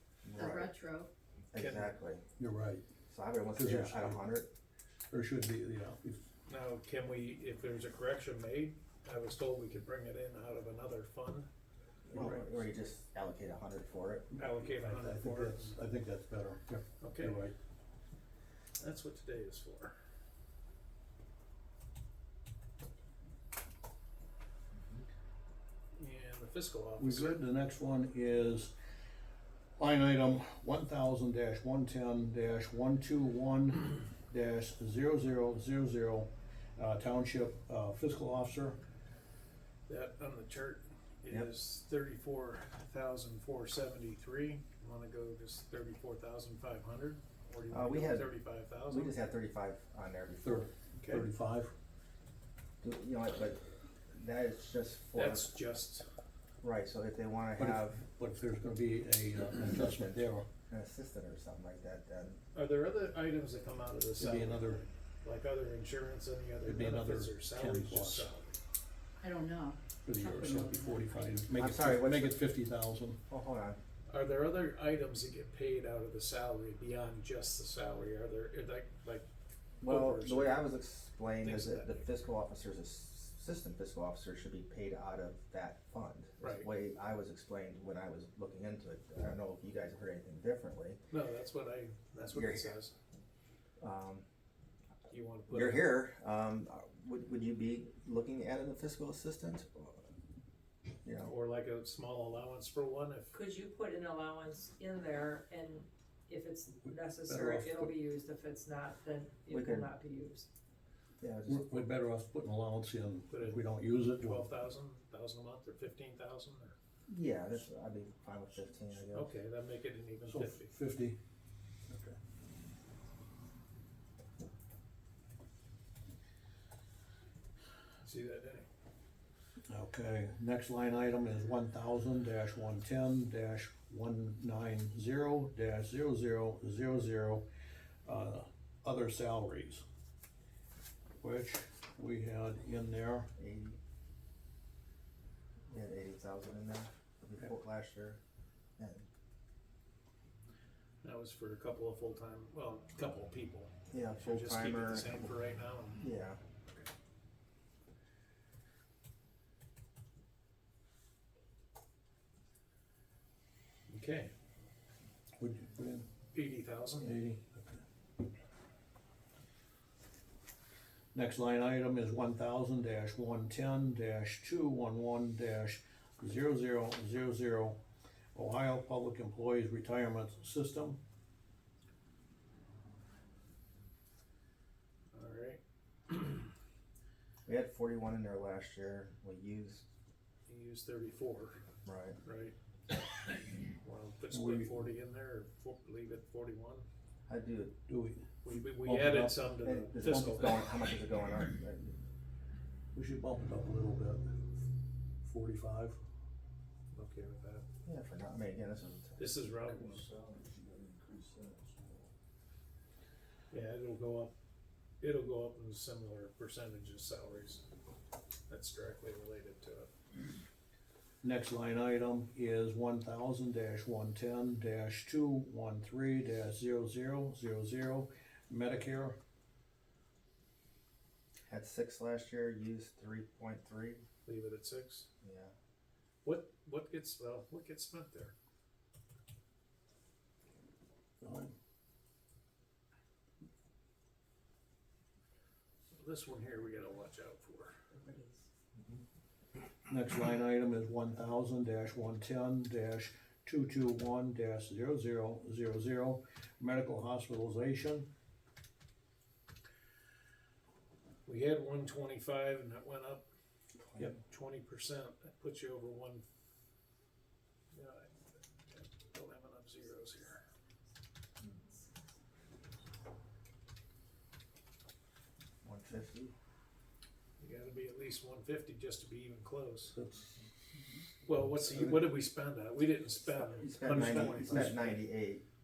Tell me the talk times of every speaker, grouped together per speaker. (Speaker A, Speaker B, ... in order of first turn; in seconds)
Speaker A: 0.2-0.7, 1.5-2.2, 3.1-4.5, 12.1-14.3, 47.7-48.3, 48.9-50.7, 52.8-53.6, 54.1-55.5, 56.6-58.0, 59.6-62.4, 71.5-72.4, 73.3-73.8, 79.8-91.0, 92.2-92.7, 93.8-94.2, 95.5-100.0, 101.0-101.3, 109.5-109.9, 111.2-111.8, 117.1-119.3, 143.4-143.8, 145.7-148.2, 148.8-149.1, 153.9-155.2, 155.9-156.4, 187.4-189.8, 191.8-192.2, 197.3-197.7, 199.6-202.0, 207.8-210.7, 231.5-234.0, 235.2-235.5, 275.6-276.3, 283.5-285.4
Speaker B: 0.4-1.1, 69.2-71.5
Speaker C: 1.6-2.0, 6.5-11.5, 14.3-15.7, 17.0-17.4, 18.8-19.9, 25.9-27.4, 39.9-49.2, 51.0-51.3, 55.1-56.0, 62.5-68.6, 74.1-79.2, 79.8-80.6, 81.4-82.0, 86.4-86.7, 91.1-92.9, 95.1-95.9, 101.2-103.3, 113.3-116.7, 119.1-120.7, 128.0-128.7, 151.0-156.0, 163.9-164.3, 166.3-167.2, 185.1-186.4, 190.5-191.6, 192.2-192.5, 193.8-196.8, 198.4-200.6, 206.9-207.6, 209.2-210.0, 213.5-214.3, 215.0-217.6, 218.5-219.9, 234.2-235.1, 236.2-238.3, 245.9-248.2, 261.2-263.2, 263.9-266.2, 267.7-268.1, 268.7-270.4, 277.4-279.9, 281.2-284.9
Speaker D: 2.4-2.8, 3.5-4.2, 5.1-6.2, 12.1-12.6, 14.8-17.5, 27.0-28.7, 29.8-38.8, 50.4-51.7, 57.6-60.5, 64.2-64.8, 66.6-68.3, 70.0-73.2, 106.8-107.9, 111.5-114.4, 120.3-121.2, 121.9-122.2, 129.7-137.4, 138.1-139.8, 141.2-143.3, 165.4-166.1, 167.0-167.8, 171.1-177.8, 178.3-181.0, 194.3-194.8, 197.9-198.2, 198.8-200.3, 202.9-204.3, 205.2-206.0, 210.2-211.9, 221.2-229.2, 241.2-241.5, 249.9-258.1, 279.9-280.3, 281.4-282.0, 283.7-285.0
Speaker E: 103.3-110.5